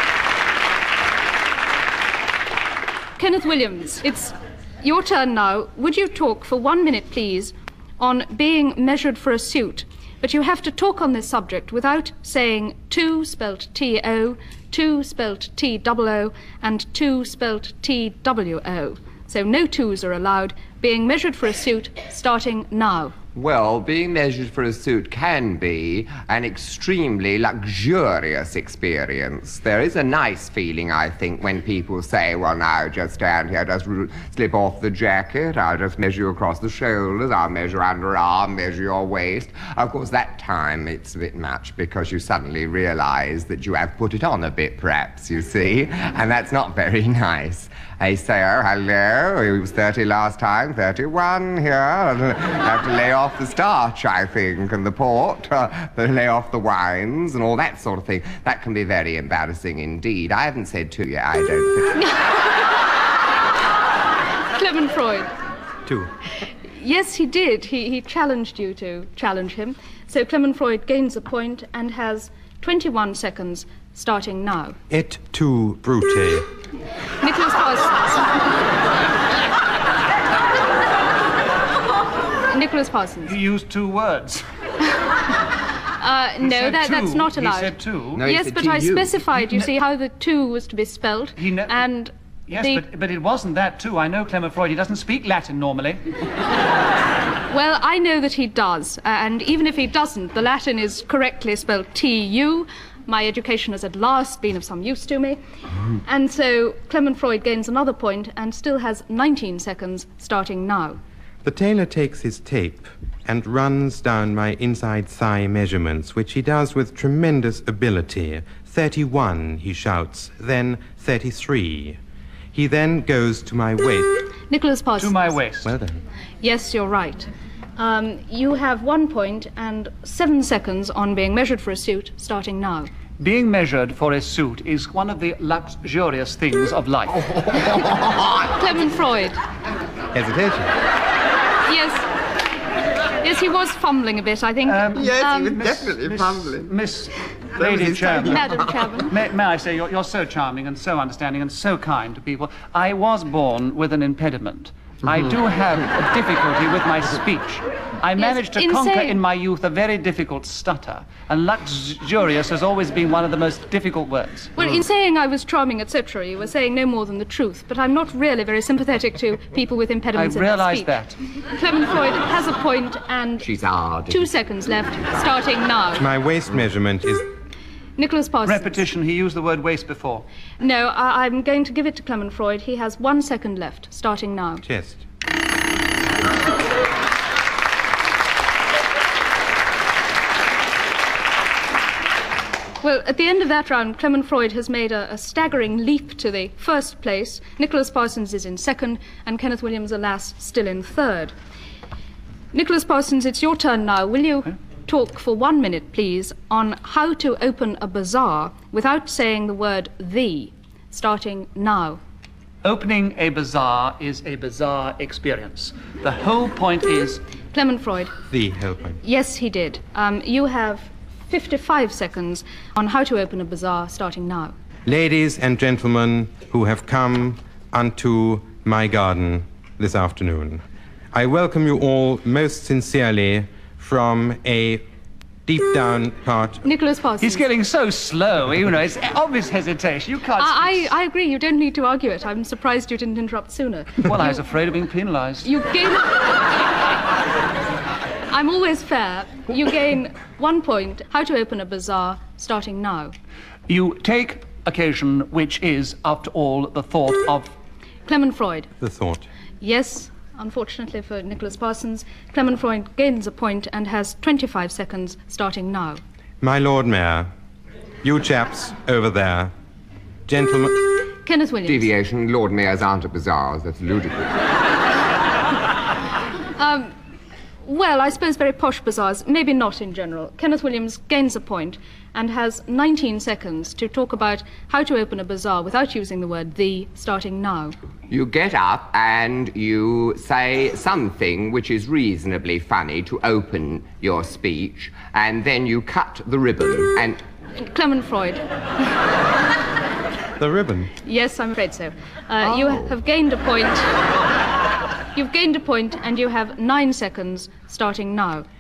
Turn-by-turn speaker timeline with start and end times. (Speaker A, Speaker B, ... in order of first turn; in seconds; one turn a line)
Speaker A: 3.2-23.1
Speaker B: 23.3-62.0
Speaker A: 64.5-65.3
Speaker C: 65.8-66.1
Speaker A: 66.6-74.8
Speaker C: 74.9-76.5
Speaker A: 77.2-78.3
Speaker A: 82.5-83.3
Speaker D: 83.2-84.5
Speaker A: 86.0-92.8
Speaker D: 86.4-88.2
Speaker B: 88.1-89.1
Speaker D: 91.4-91.7
Speaker D: 92.5-96.0
Speaker A: 97.5-105.4
Speaker A: 106.0-111.0
Speaker C: 111.4-122.0
Speaker C: 122.5-124.2
Speaker A: 124.5-125.4
Speaker D: 125.0-125.7
Speaker C: 125.6-126.0
Speaker A: 126.4-132.9
Speaker D: 133.2-137.3
Speaker B: 137.5-138.5
Speaker A: 138.5-139.4
Speaker C: 140.1-140.7
Speaker A: 141.6-142.1
Speaker A: 143.2-145.6
Speaker D: 144.6-148.5
Speaker B: 144.9-146.7
Speaker B: 147.6-148.7
Speaker A: 148.2-149.1
Speaker D: 149.1-164.5
Speaker A: 158.2-159.2
Speaker A: 164.6-170.9
Speaker D: 170.1-171.2
Speaker A: 171.5-173.5
Speaker B: 173.4-174.3
Speaker A: 174.1-176.1
Speaker C: 175.9-177.2
Speaker A: 178.0-178.8
Speaker D: 178.4-180.2
Speaker A: 180.6-184.6
Speaker C: 184.6-185.1
Speaker A: 192.8-201.3
Speaker A: 202.5-212.0
Speaker D: 212.6-217.2
Speaker A: 217.5-218.1
Speaker C: 218.3-219.0
Speaker A: 219.0-224.5
Speaker C: 224.8-230.6
Speaker C: 231.1-234.8
Speaker C: 235.4-236.6
Speaker A: 236.6-237.5
Speaker D: 237.2-240.8
Speaker A: 240.4-244.4
Speaker D: 244.0-245.5
Speaker A: 245.4-246.3
Speaker A: 248.3-253.1
Speaker D: 253.7-257.5
Speaker A: 258.1-258.7
Speaker C: 258.8-259.3
Speaker A: 259.6-266.0
Speaker C: 266.4-267.3
Speaker C: 268.0-269.5
Speaker C: 270.3-270.9
Speaker A: 271.2-271.9
Speaker B: 271.6-274.4
Speaker A: 276.6-276.9
Speaker A: 277.6-287.8
Speaker B: 288.1-297.2
Speaker A: 297.6-298.4
Speaker C: 300.4-300.9
Speaker A: 301.0-303.9
Speaker A: 305.1-308.4